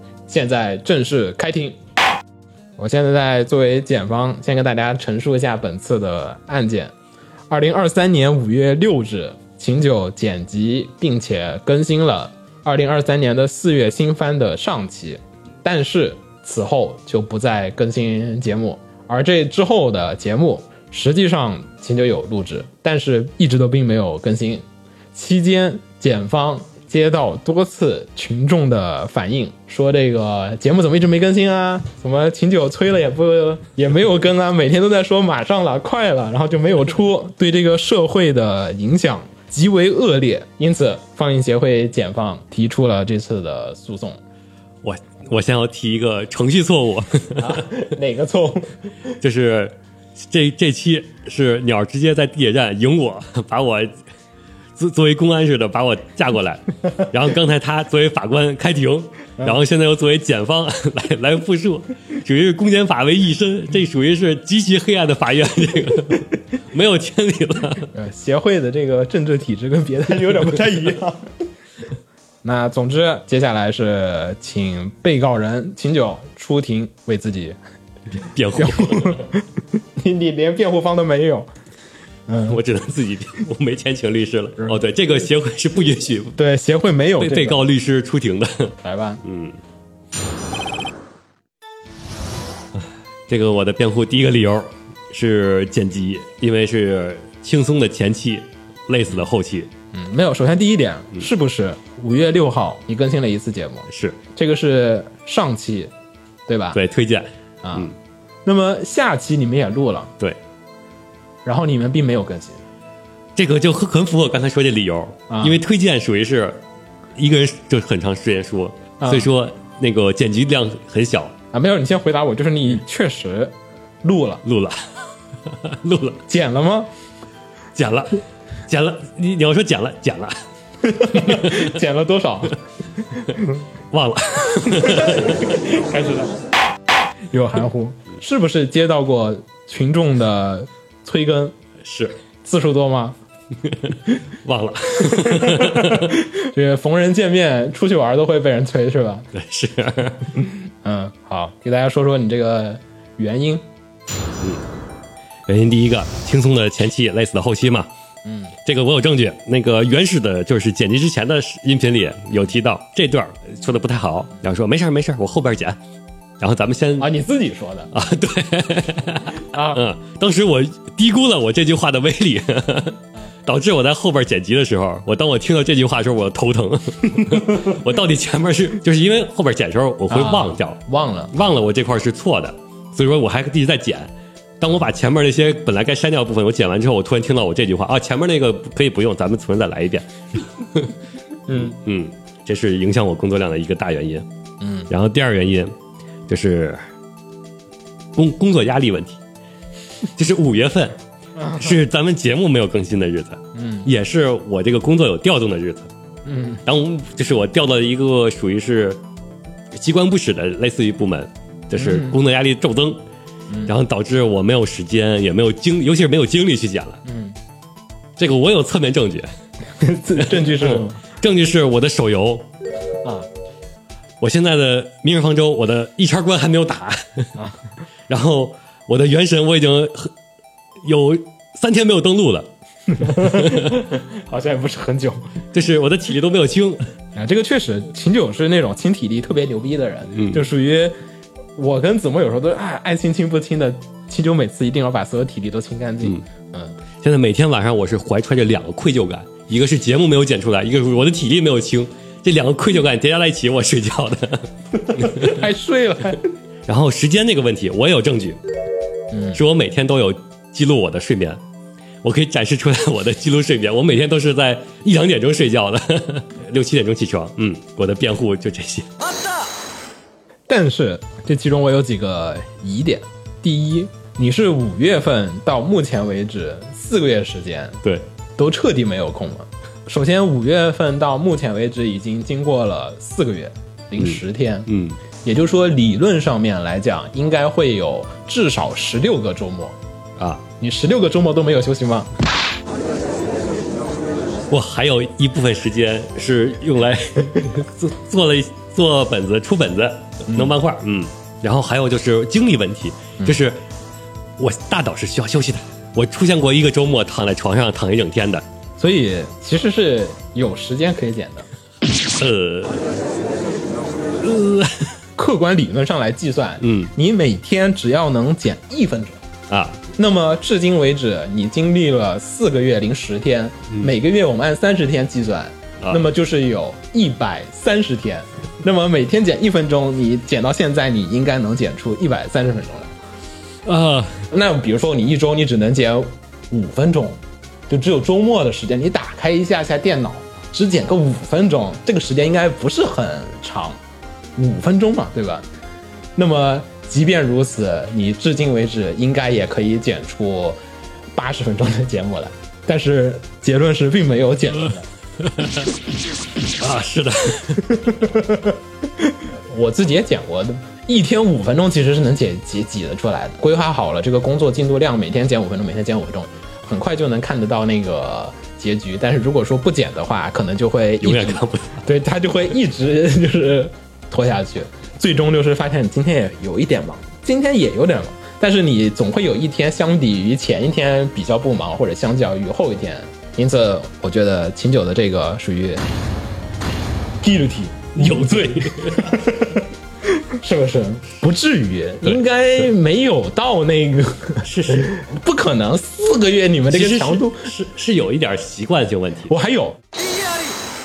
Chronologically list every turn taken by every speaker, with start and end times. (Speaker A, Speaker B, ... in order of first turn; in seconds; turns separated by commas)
Speaker A: 0.3-1.8, Speaker A: 2.8-6.9, Speaker A: 7.5-44.2, Speaker B: 44.8-47.8, Speaker A: 47.4-48.9, Speaker B: 49.2-53.9, Speaker B: 54.8-67.9, Speaker A: 67.9-71.3, Speaker A: 72.4-77.6, Speaker B: 78.2-79.2, Speaker A: 78.5-79.5, Speaker A: 80.0-81.5, Speaker A: 82.3-82.6, Speaker B: 82.4-86.4, Speaker A: 86.4-87.6, Speaker B: 87.2-89.6, Speaker A: 88.8-89.2, Speaker B: 93.3-99.7, Speaker A: 99.9-105.9, Speaker B: 103.9-104.2, Speaker A: 106.5-106.8, Speaker B: 106.7-107.9, Speaker A: 107.6-107.9, Speaker A: 108.4-110.1, Speaker A: 111.4-112.6, Speaker B: 113.3-116.6, Speaker A: 115.3-115.6, Speaker B: 117.2-121.3, Speaker A: 119.0-119.3, Speaker A: 121.5-124.4, Speaker B: 124.4-124.8, Speaker B: 125.5-126.2, Speaker A: 126.3-126.9, Speaker B: 127.8-130.3, Speaker A: 130.8-132.6, Speaker B: 131.1-131.7, Speaker A: 133.1-133.6, Speaker B: 133.9-135.5, Speaker A: 134.7-136.3, Speaker A: 137.3-141.6, Speaker B: 141.8-142.2, Speaker A: 142.4-143.2, Speaker B: 143.6-146.2, Speaker A: 145.0-149.3, Speaker B: 149.3-150.3, Speaker A: 150.8-153.7, Speaker B: 155.5-157.9, Speaker A: 158.2-158.5, Speaker B: 158.6-165.8, Speaker B: 166.4-167.1, Speaker A: 167.0-167.9, Speaker B: 167.9-180.8, Speaker A: 169.5-169.8, Speaker A: 180.1-181.3, Speaker B: 181.3-190.9, Speaker A: 191.5-191.8, Speaker B: 191.5-194.3, Speaker A: 194.6-194.9, Speaker B: 194.9-195.7, Speaker B: 196.3-196.8, Speaker B: 198.1-199.2, Speaker B: 200.1-205.9, Speaker A: 201.4-201.8, Speaker A: 203.5-203.9, Speaker A: 206.2-206.6, Speaker B: 206.7-209.0, Speaker B: 209.7-213.0, Speaker A: 211.8-212.2, Speaker B: 213.7-217.0, Speaker A: 217.1-217.3, Speaker B: 218.2-219.3, Speaker A: 219.8-220.9, Speaker B: 220.2-222.5, Speaker B: 224.2-227.3, Speaker B: 228.1-230.1, Speaker B: 230.8-233.8, Speaker A: 232.9-235.3, Speaker B: 235.5-236.8, Speaker A: 237.2-240.9, Speaker B: 240.1-240.4, Speaker A: 241.6-246.7, Speaker B: 247.0-255.4, Speaker A: 254.9-256.2, Speaker B: 256.7-258.4, Speaker A: 259.1-259.4, Speaker B: 259.3-261.4, Speaker B: 262.0-268.9, Speaker A: 270.5-277.8, Speaker A: 278.4-284.7, Speaker B: 284.0-285.0, Speaker A: 285.2-289.8, Speaker B: 290.2-290.4, Speaker A: 290.6-292.1, Speaker B: 294.5-303.6, Speaker B: 304.4-308.4, Speaker A: 308.8-311.5, Speaker B: 312.1-312.9, Speaker B: 314.2-314.9, Speaker A: 315.2-319.2, Speaker B: 316.6-316.9, Speaker B: 319.5-319.8, Speaker A: 319.9-332.9, Speaker B: 333.6-334.3, Speaker A: 334.3-343.8, Speaker A: 344.4-345.5, Speaker A: 346.2-350.6, Speaker A: 351.1-354.9, Speaker B: 355.2-355.7, Speaker B: 356.5-357.8, Speaker A: 357.8-385.8, Speaker B: 371.0-371.9, Speaker A: 387.2-397.5, Speaker B: 387.9-389.2, Speaker B: 394.4-395.0, Speaker B: 396.7-399.3, Speaker A: 399.3-399.8